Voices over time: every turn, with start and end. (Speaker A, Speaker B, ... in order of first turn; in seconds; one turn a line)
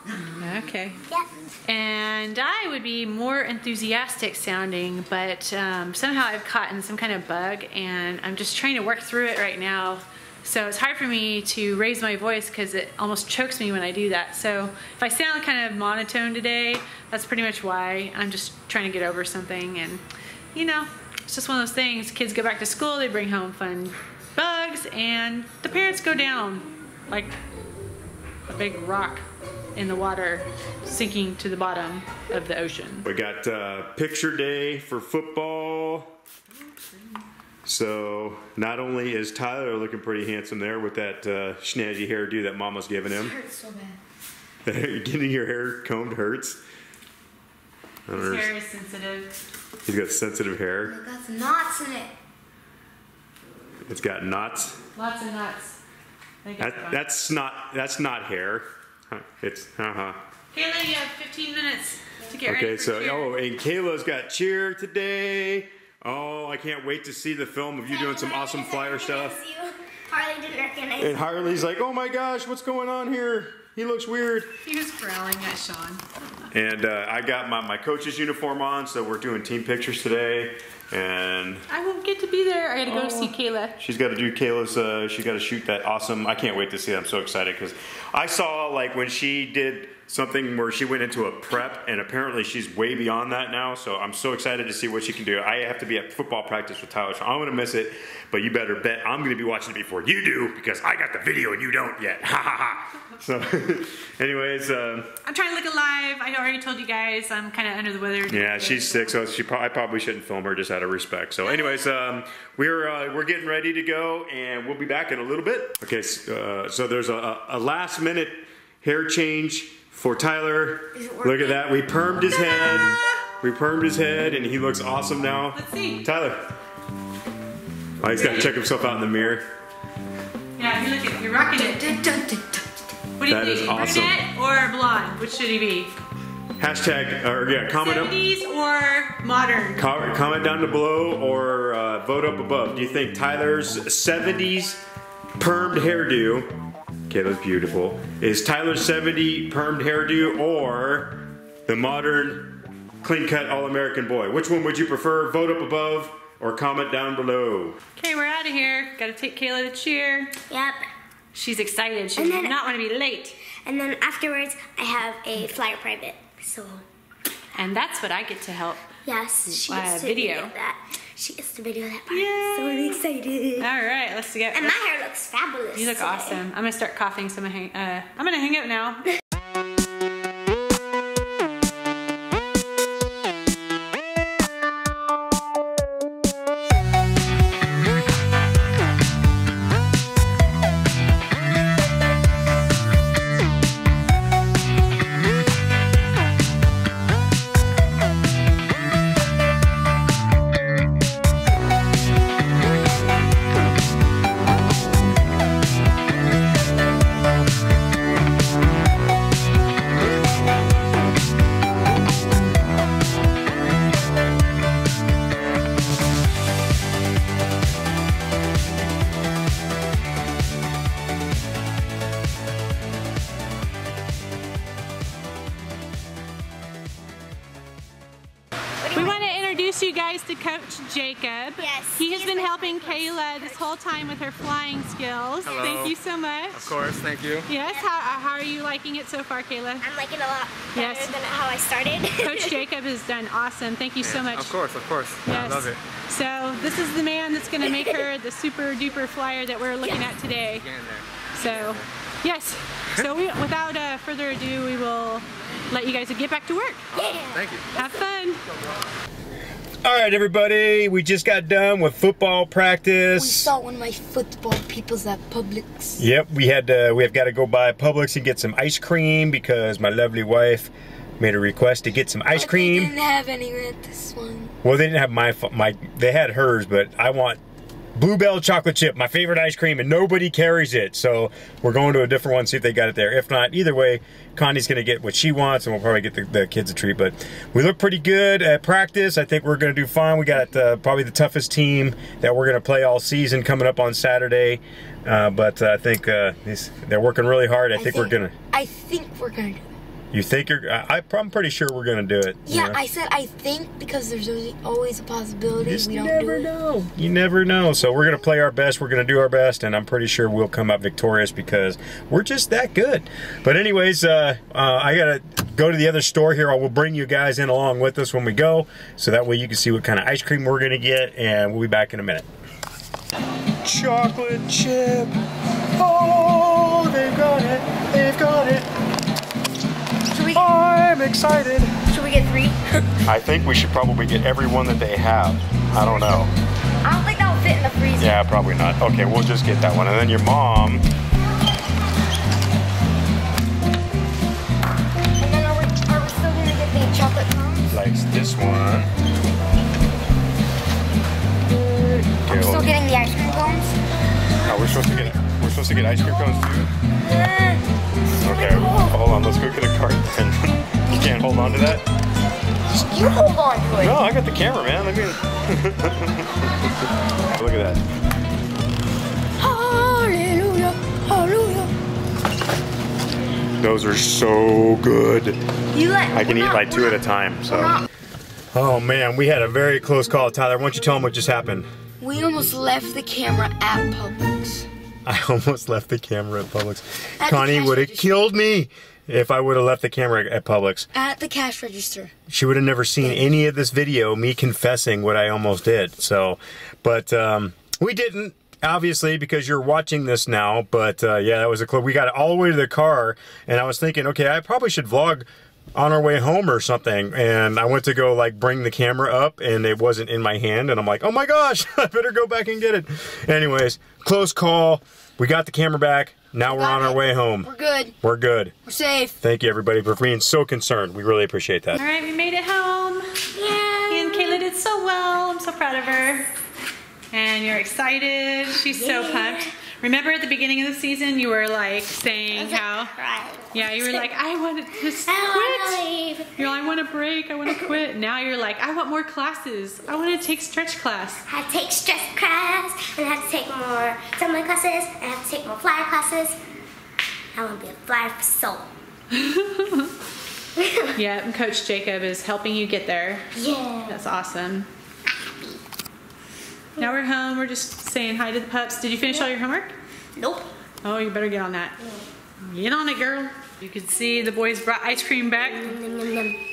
Speaker A: 0.4-1.0
Speaker A: 1.6-20.0
Speaker A: 20.5-27.3
Speaker A: 28.5-33.1
Speaker B: 33.0-36.1
Speaker B: 37.6-43.4
Speaker C: 43.1-44.0
Speaker B: 44.6-46.6
Speaker B: 48.1-48.5
Speaker A: 48.1-49.3
Speaker B: 49.8-51.0
Speaker C: 50.8-52.1
Speaker B: 53.9-54.8
Speaker A: 54.9-55.8
Speaker A: 56.4-57.0
Speaker B: 56.6-60.2
Speaker A: 60.5-63.3
Speaker B: 62.4-69.4
Speaker D: 67.8-71.3
Speaker B: 71.0-74.5
Speaker A: 74.6-76.0
Speaker B: 76.5-81.6
Speaker A: 81.7-83.8
Speaker B: 82.8-105.1
Speaker A: 105.2-109.2
Speaker B: 108.3-126.4
Speaker C: 121.0-121.6
Speaker A: 125.5-126.1
Speaker B: 128.0-129.4
Speaker A: 128.1-128.5
Speaker A: 130.6-132.6
Speaker A: 133.2-135.9
Speaker B: 133.3-134.2
Speaker B: 136.6-138.1
Speaker A: 137.7-139.8
Speaker B: 139.8-144.8
Speaker B: 145.4-146.5
Speaker B: 147.1-157.8
Speaker A: 158.0-160.3
Speaker D: 160.5-160.8
Speaker A: 161.3-163.3
Speaker D: 162.2-162.7
Speaker D: 163.6-166.8
Speaker A: 167.6-168.9
Speaker D: 169.1-173.7
Speaker A: 169.5-170.5
Speaker A: 172.1-173.0
Speaker A: 173.6-174.8
Speaker D: 174.5-176.4
Speaker A: 175.7-179.1
Speaker D: 228.8-229.2
Speaker A: 228.9-236.7
Speaker D: 231.6-233.7
Speaker D: 235.4-235.8
Speaker E: 235.4-235.9
Speaker E: 236.5-237.5
Speaker A: 237.5-239.9
Speaker D: 239.8-242.6
Speaker A: 240.7-241.2
Speaker A: 242.2-244.6
Speaker E: 244.0-245.8
Speaker A: 245.2-250.7
Speaker D: 247.6-247.9
Speaker E: 250.6-251.8
Speaker A: 251.3-256.8
Speaker D: 256.9-257.5
Speaker E: 257.3-257.7
Speaker A: 257.7-258.4
Speaker B: 259.8-263.5
Speaker C: 263.2-266.0
Speaker B: 266.0-272.9
Speaker C: 272.3-274.5
Speaker B: 274.6-277.4
Speaker B: 277.9-298.4
Speaker C: 297.7-299.7
Speaker B: 300.1-302.8
Speaker C: 302.4-306.6
Speaker B: 305.6-322.3
Speaker B: 323.6-325.1
Speaker B: 325.8-328.7
Speaker C: 330.1-330.5
Speaker B: 330.3-331.9
Speaker C: 331.9-332.8
Speaker B: 333.1-336.3
Speaker C: 336.8-338.1
Speaker B: 338.0-340.8
Speaker C: 345.2-347.7
Speaker B: 347.7-348.9
Speaker C: 351.6-353.7
Speaker B: 352.2-352.8
Speaker B: 354.4-356.7
Speaker C: 357.0-357.6
Speaker B: 358.2-361.8
Speaker C: 358.2-358.9
Speaker C: 360.9-361.7
Speaker C: 362.7-364.1
Speaker B: 363.8-366.5
Speaker B: 367.3-367.8
Speaker C: 369.4-371.7
Speaker B: 373.6-375.4
Speaker C: 375.7-377.9
Speaker B: 376.1-377.8
Speaker B: 378.5-381.7
Speaker C: 382.0-384.7
Speaker B: 385.1-390.9
Speaker C: 387.2-388.3
Speaker C: 390.9-392.1
Speaker B: 392.3-417.5
Speaker C: 393.0-393.3
Speaker C: 416.4-417.9
Speaker B: 418.0-418.5
Speaker C: 418.6-419.2
Speaker B: 419.2-421.8
Speaker A: 421.7-423.1
Speaker D: 423.4-424.4
Speaker A: 423.9-426.3
Speaker A: 427.1-432.9
Speaker D: 428.7-429.5
Speaker D: 432.3-434.1
Speaker A: 433.5-435.8
Speaker D: 435.0-436.5
Speaker A: 436.4-441.2
Speaker D: 441.2-446.4
Speaker D: 447.3-448.7
Speaker A: 449.1-449.9
Speaker D: 450.6-450.9
Speaker A: 450.9-453.3
Speaker D: 453.3-454.0
Speaker A: 453.9-454.7
Speaker A: 456.8-459.7
Speaker D: 460.2-460.5
Speaker A: 460.8-461.8
Speaker A: 462.4-465.7
Speaker D: 465.5-466.4